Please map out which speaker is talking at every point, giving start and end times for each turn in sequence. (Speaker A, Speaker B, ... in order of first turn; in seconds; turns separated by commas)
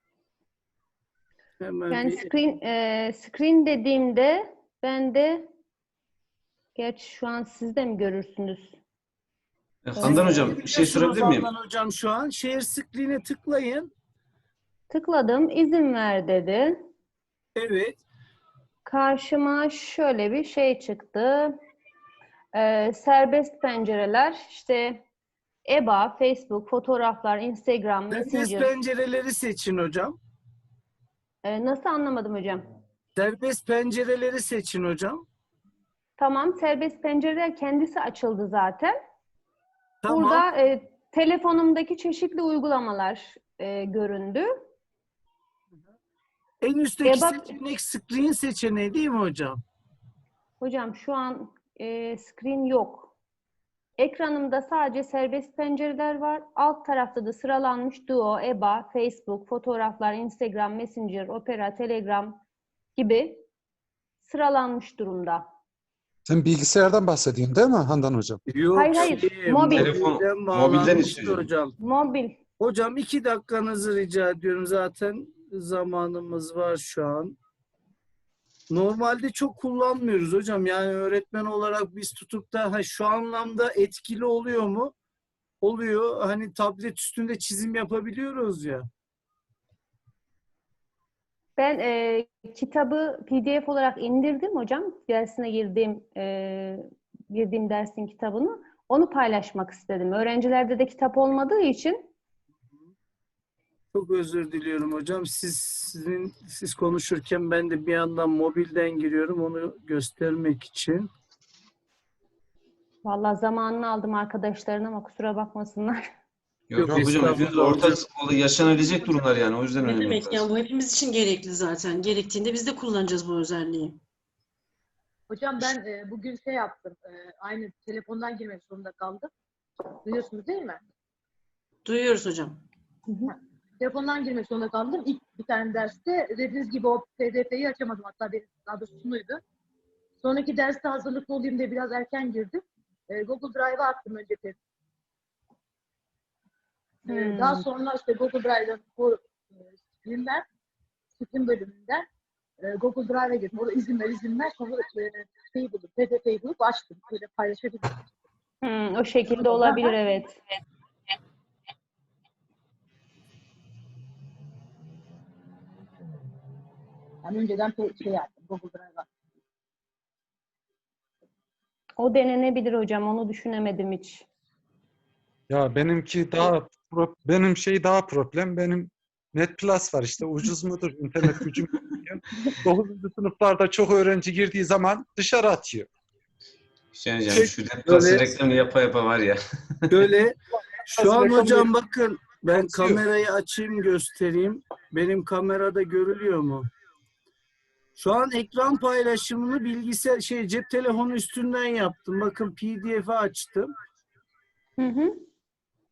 Speaker A: 1.6-2.3, Speaker B: 1.9-5.5, Speaker B: 6.8-8.8, Speaker C: 9.8-11.5, Speaker B: 10.0-10.5, Speaker A: 10.0-13.9, Speaker B: 14.9-16.8, Speaker A: 17.6-18.0, Speaker B: 18.8-21.5, Speaker B: 22.5-25.0, Speaker B: 25.7-28.7, Speaker A: 28.1-30.2, Speaker B: 31.4-32.6, Speaker A: 33.1-35.2, Speaker B: 36.2-39.0, Speaker A: 40.0-40.5, Speaker B: 40.1-44.5, Speaker A: 46.6-49.6, Speaker B: 47.0-47.5, Speaker B: 50.6-53.1, Speaker B: 54.0-62.4, Speaker B: 63.0-63.4, Speaker B: 64.2-65.5, Speaker D: 66.3-68.2, Speaker A: 68.5-71.8, Speaker B: 68.7-69.9, Speaker C: 69.7-71.5, Speaker B: 71.8-72.3, Speaker A: 72.6-77.4, Speaker A: 78.7-84.9, Speaker A: 85.6-88.8, Speaker B: 91.6-102.1, Speaker A: 103.9-111.1, Speaker B: 113.0-116.1, Speaker C: 116.7-120.5, Speaker A: 116.8-118.0, Speaker E: 119.8-124.0, Speaker F: 125.3-129.3, Speaker F: 130.0-130.8, Speaker E: 131.8-132.6, Speaker F: 133.3-139.4, Speaker F: 140.2-144.6, Speaker F: 147.1-149.2, Speaker B: 147.1-147.7, Speaker F: 150.0-150.4, Speaker F: 151.2-152.1, Speaker F: 152.6-158.0, Speaker B: 158.6-160.4, Speaker F: 159.4-159.9, Speaker F: 167.2-169.1, Speaker B: 172.0-174.2, Speaker D: 175.5-181.4, Speaker D: 182.7-185.8, Speaker C: 186.9-190.0, Speaker A: 187.3-188.3, Speaker A: 189.9-196.7, Speaker A: 198.0-203.7, Speaker B: 204.8-205.2